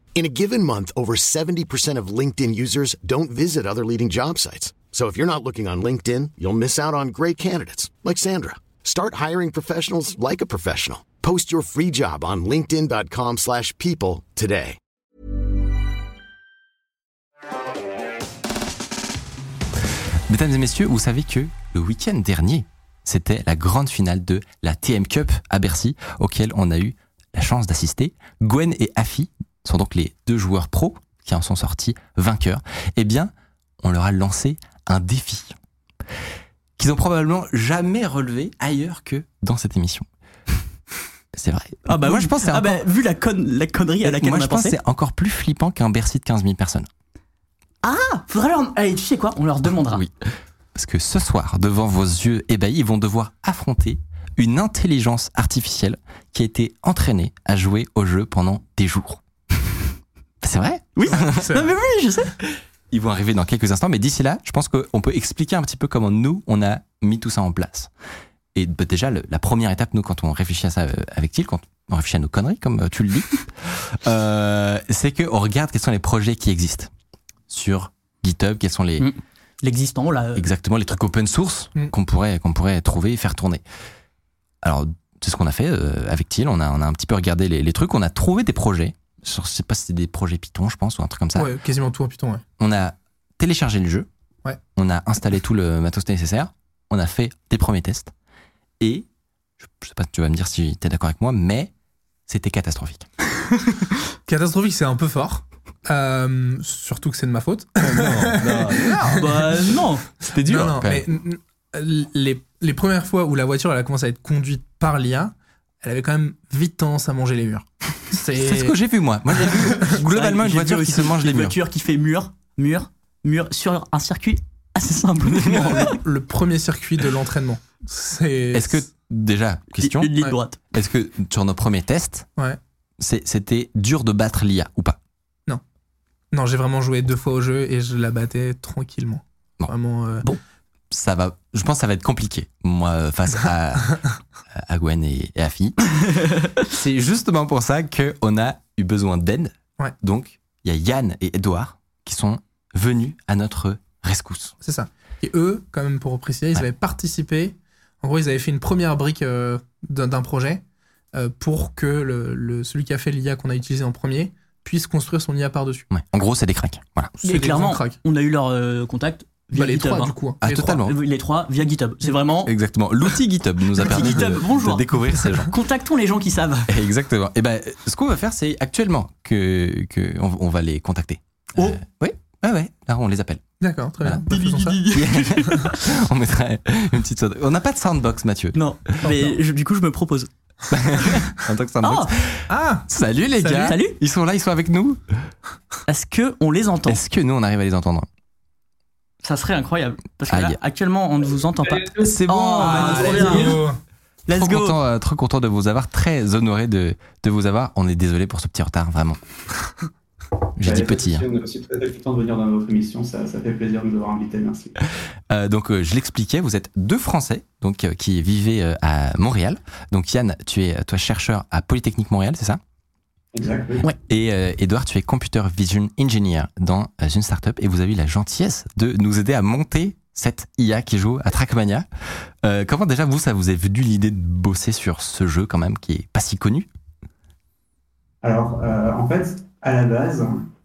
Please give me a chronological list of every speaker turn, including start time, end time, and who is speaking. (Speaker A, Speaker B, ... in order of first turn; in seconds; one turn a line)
Speaker A: 0.1-14.8
Speaker B: 20.3-35.5
Speaker B: 36.8-40.0
Speaker B: 41.3-42.8
Speaker C: 41.9-44.8
Speaker B: 44.0-46.9
Speaker C: 47.8-50.0
Speaker B: 49.7-50.1
Speaker B: 50.7-59.2
Speaker B: 60.4-61.5
Speaker C: 61.0-62.3
Speaker D: 61.3-61.7
Speaker B: 62.9-67.9
Speaker B: 68.5-76.9
Speaker B: 77.5-79.1
Speaker C: 79.0-80.4
Speaker B: 80.3-83.6
Speaker B: 84.6-91.5
Speaker D: 91.3-92.4
Speaker B: 92.6-94.1
Speaker B: 94.8-98.1
Speaker B: 98.8-99.1
Speaker B: 99.6-101.7
Speaker B: 102.3-103.1
Speaker D: 104.3-109.4
Speaker B: 107.8-109.0
Speaker C: 109.0-110.1
Speaker B: 110.3-111.0
Speaker D: 110.4-118.7
Speaker B: 118.4-121.5
Speaker C: 120.0-126.0
Speaker B: 125.5-125.7
Speaker D: 125.5-128.8
Speaker B: 128.5-130.1
Speaker C: 129.8-130.6
Speaker B: 130.7-132.3
Speaker B: 133.0-135.0
Speaker D: 136.3-140.3
Speaker B: 140.9-144.0
Speaker B: 144.5-146.1
Speaker B: 146.7-154.6
Speaker D: 154.6-160.6
Speaker D: 161.1-165.9
Speaker B: 165.9-167.1
Speaker D: 167.2-168.0
Speaker C: 167.2-170.2
Speaker D: 169.5-170.8
Speaker B: 170.4-170.9
Speaker C: 170.7-172.5
Speaker B: 172.4-175.5
Speaker C: 173.8-174.8
Speaker C: 175.5-176.7
Speaker B: 176.7-183.4
Speaker D: 183.6-184.8
Speaker C: 184.3-185.7
Speaker B: 184.9-188.6
Speaker C: 188.5-190.3
Speaker D: 189.1-189.3
Speaker B: 190.7-195.2
Speaker C: 191.8-192.1
Speaker D: 192.5-192.9
Speaker D: 193.4-193.8
Speaker C: 193.6-193.9
Speaker C: 195.9-197.0
Speaker B: 196.9-198.1
Speaker C: 199.2-203.6
Speaker B: 200.3-200.6
Speaker B: 202.0-203.6
Speaker D: 202.5-203.8
Speaker C: 204.3-204.8
Speaker B: 204.3-209.2
Speaker B: 210.6-211.2
Speaker E: 210.6-214.8
Speaker B: 215.3-222.6
Speaker E: 223.3-223.9
Speaker B: 224.1-231.8
Speaker B: 232.4-236.7
Speaker E: 238.2-240.4